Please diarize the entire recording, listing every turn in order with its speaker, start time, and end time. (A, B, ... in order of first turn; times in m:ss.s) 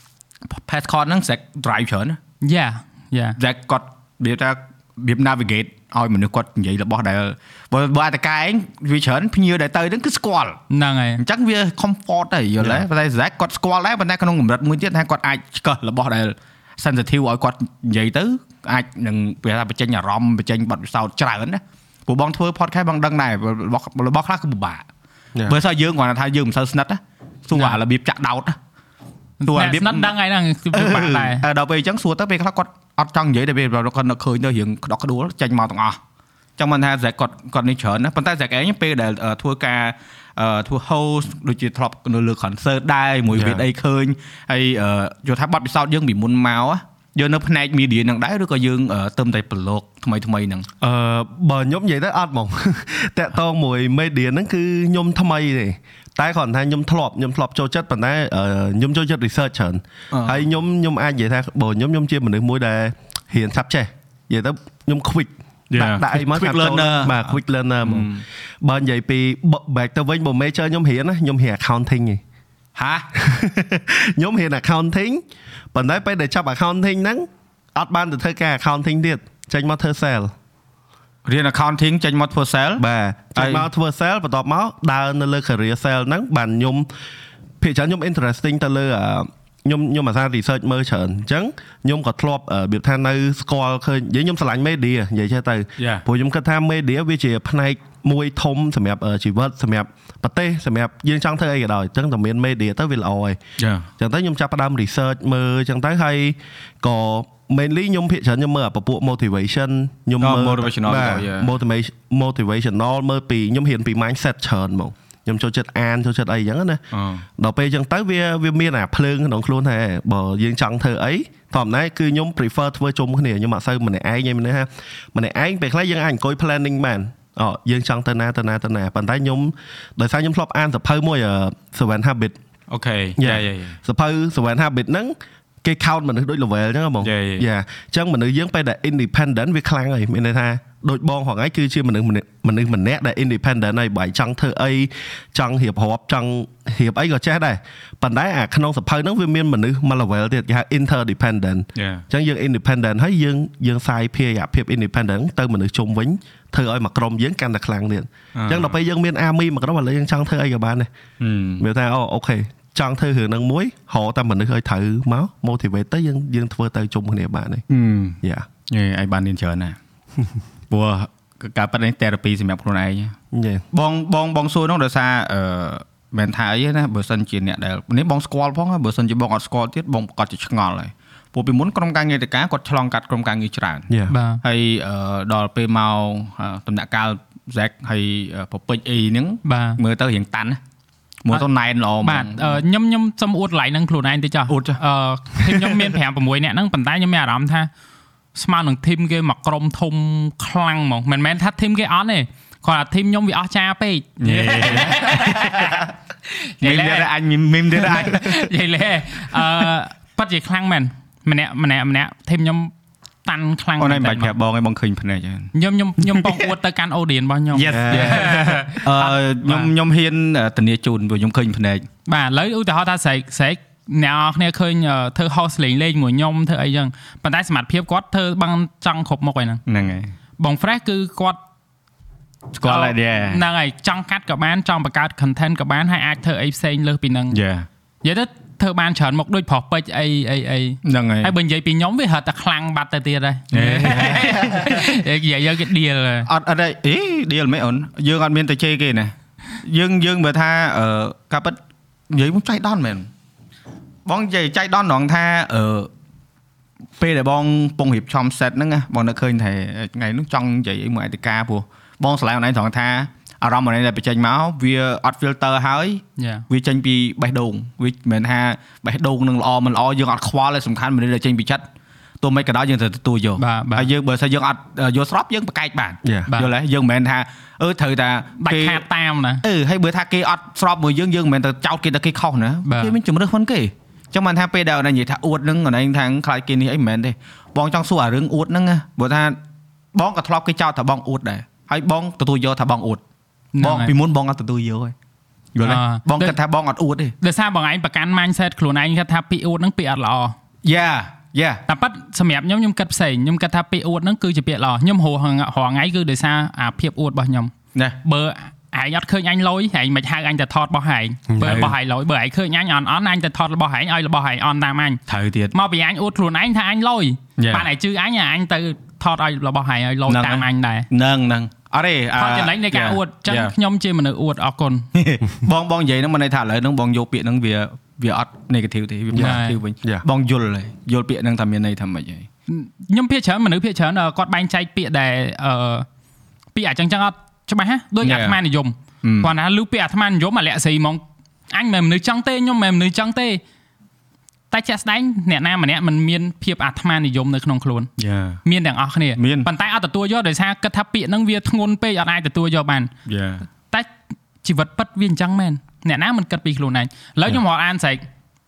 0:00.5-0:02.2 A
0:02.4-0:03.4 B
0:03.4-0:10.6 A
0:10.7-0:11.2 B
0:11.2-0:24.9 A
0:25.4-0:28.6 A
0:29.4-0:31.4 B
0:29.5-0:30.1 A
0:30.7-0:36.0 A
0:36.6-0:50.7 A
0:43.3-0:43.6 C
0:50.8-1:08.1 C
1:00.1-1:00.4 A
1:05.7-1:07.2 A
1:07.8-1:08.2 A
1:08.6-1:12.2 C
1:12.8-1:13.1 A
1:13.1-1:15.2 C
1:15.7-1:20.3 C
1:21.2-1:22.8 A
1:22.8-1:26.9 C
1:23.4-1:23.6 A
1:27.6-1:43.4 C
1:35.8-1:36.0 A
1:43.6-1:43.9 A
1:44.0-1:56.8 C
1:50.2-1:51.5 A
1:56.9-1:57.2 A
1:57.4-2:12.4 C
2:12.7-2:13.8 A
2:13.2-2:40.9 C
2:17.0-2:17.4 A
2:31.8-2:32.0 A
2:38.3-2:38.7 A
2:41.2-2:41.6 A
2:41.6-2:47.6 C
2:47.7-2:48.2 A
2:48.2-2:48.5 C
2:48.7-2:49.8 A
2:50.7-2:53.1 A
2:53.3-2:53.6 C
2:53.7-3:03.9 A
3:03.9-3:04.1 C
3:04.1-3:04.4 B
3:04.4-3:10.6 A
3:09.4-3:09.8 B
3:11.2-3:12.6 A
3:12.0-3:17.7 B
3:14.5-3:14.8 A
3:15.4-3:15.9 A
3:18.3-3:27.1 B
3:24.2-3:25.8 A
3:26.6-3:28.5 A
3:27.7-3:32.7 B
3:29.4-3:29.7 A
3:33.2-3:34.3 B
3:33.8-3:36.5 A
3:35.5-3:39.7 B
3:37.5-3:41.9 A
3:37.7-3:38.4 C
3:42.0-3:49.6 B
3:49.7-3:50.1 A
3:50.4-3:51.4 B
3:52.6-3:53.4 A
3:52.6-3:57.4 B
3:57.3-3:57.7 A
3:58.0-4:06.3 B
4:00.8-4:01.3 A
4:03.5-4:05.0 A
4:06.3-4:11.6 A
4:12.1-4:13.1 A
4:14.0-4:15.9 A
4:17.0-4:31.6 A
4:26.2-4:26.4 B
4:32.2-4:38.8 A
4:33.4-4:33.9 B
4:38.4-4:39.4 B
4:39.4-4:49.4 A
4:42.6-4:43.0 B
4:49.9-4:53.0 A
4:53.5-4:53.9 B
4:53.6-4:54.9 A
4:55.5-4:57.1 A
4:55.6-4:56.3 B
4:57.2-5:00.3 B
5:00.6-5:01.6 A
5:01.7-5:07.5 B
5:08.0-5:15.0 B
5:11.3-5:11.7 C
5:11.4-5:11.7 A
5:15.1-5:15.5 A
5:15.5-5:20.9 B
5:17.4-5:17.7 A
5:20.1-5:23.5 A
5:22.2-5:24.9 B
5:24.9-5:32.3 A
5:29.1-5:30.0 C
5:29.2-5:29.6 B
5:32.5-5:35.8 B
5:36.5-5:43.4 B
5:38.0-5:38.4 A
5:39.0-5:39.3 A
5:44.5-5:47.9 B
5:48.0-5:48.4 A
5:48.4-5:52.9 B
5:49.2-5:49.5 A
5:53.0-5:53.4 A
5:54.4-5:58.0 B